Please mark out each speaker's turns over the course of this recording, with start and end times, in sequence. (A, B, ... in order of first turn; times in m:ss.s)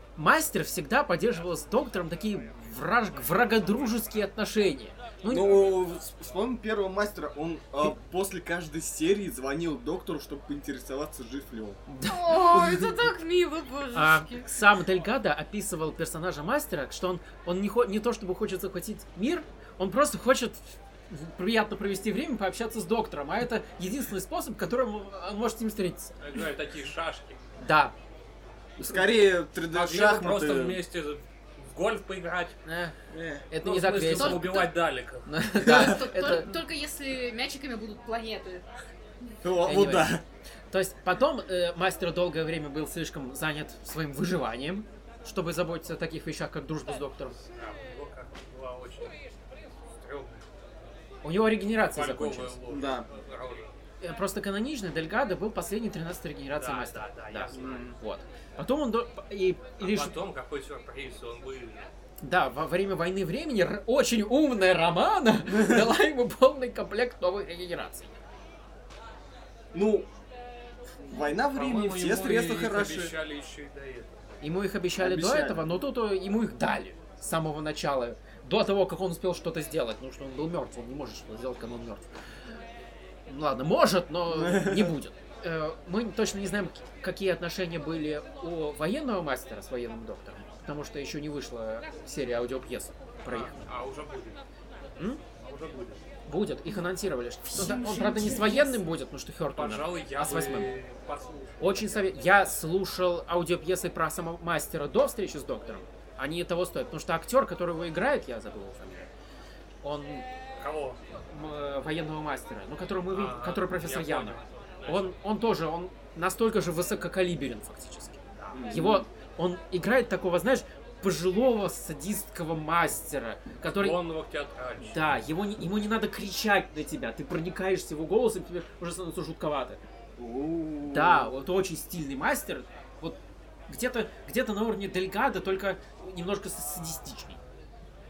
0:00.2-0:05.7 A
0:05.3-0:11.8 B
0:11.9-0:12.6 A
0:12.0-0:14.5 C
0:13.9-0:26.1 A
0:26.2-0:27.4 D
0:27.6-0:27.9 A
0:28.8-0:30.8 B
0:29.7-0:32.6 D
0:32.6-0:33.0 A
0:33.1-0:33.4 B
0:33.5-0:34.5 A
0:33.6-0:35.3 D
0:34.1-0:34.7 C
0:35.2-0:36.5 A
0:35.6-0:38.6 C
0:35.6-0:35.9 B
0:39.4-0:40.2 B
0:39.6-0:47.4 A
0:47.5-0:49.2 D
0:49.8-0:50.5 D
0:51.2-0:52.6 A
0:51.9-0:53.8 D
0:52.7-0:53.1 B
0:54.0-1:00.1 A
0:56.6-0:58.0 D
0:57.5-0:58.0 B
0:59.8-1:01.9 D
1:02.2-1:08.2 A
1:09.7-1:10.1 B
1:11.0-1:13.1 B
1:11.5-1:14.4 D
1:14.4-1:22.1 A
1:15.0-1:15.6 B
1:23.3-1:33.6 A
1:24.3-1:24.9 B
1:33.3-1:34.4 D
1:35.0-1:35.2 A
1:35.4-1:36.0 D
1:36.2-1:40.7 A
1:37.5-1:38.8 C
1:39.5-1:42.1 D
1:41.6-1:49.1 A
1:49.8-1:50.2 A
1:50.6-1:51.0 D
1:51.2-2:04.0 A
1:53.1-1:55.2 D
1:58.5-1:59.0 B
2:03.6-2:05.0 D
2:04.8-2:09.8 A
2:10.2-2:11.3 B
2:10.9-2:17.4 A